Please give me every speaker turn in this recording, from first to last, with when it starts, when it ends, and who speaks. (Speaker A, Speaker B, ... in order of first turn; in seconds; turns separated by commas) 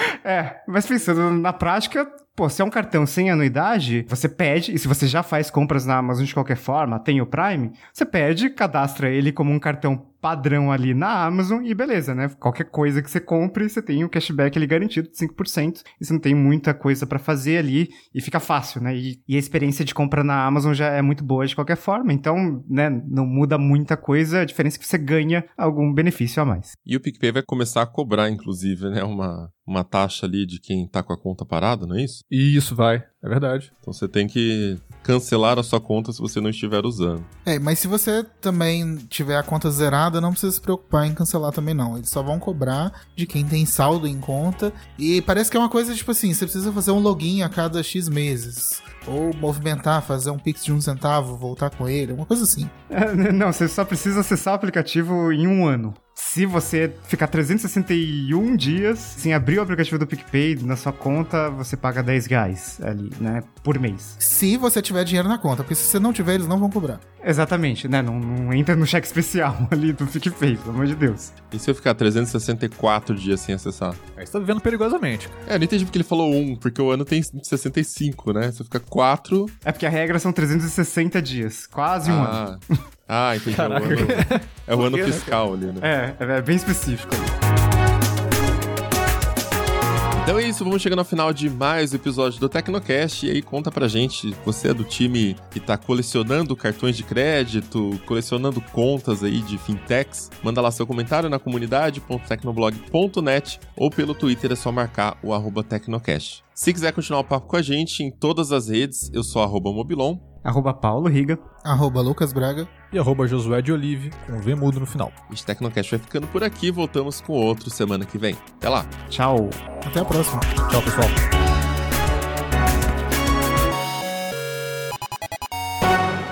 Speaker A: 0.2-26.7, Speaker B: 26.9-32.2, Speaker C: 32.3-33.7, Speaker B: 33.8-37.3, Speaker D: 37.5-52.7, Speaker A: 52.9-64.2, Speaker D: 64.2-67.0, Speaker A: 67.2-71.3, Speaker B: 71.5-74.0, Speaker C: 74.2-75.4, Speaker B: 75.5-79.5, Speaker A: 79.6-82.4, Speaker B: 82.0-85.9, Speaker C: 83.5-84.5, Speaker A: 84.7-87.3, Speaker B: 90.2-110.2, Speaker A: 110.4-111.4, Speaker D: 111.6-112.7, Speaker C: 112.9-115.2, Speaker B: 115.3-118.9, Speaker A: 119.1-119.6, Speaker D: 119.8-120.6, Speaker C: 120.6-121.2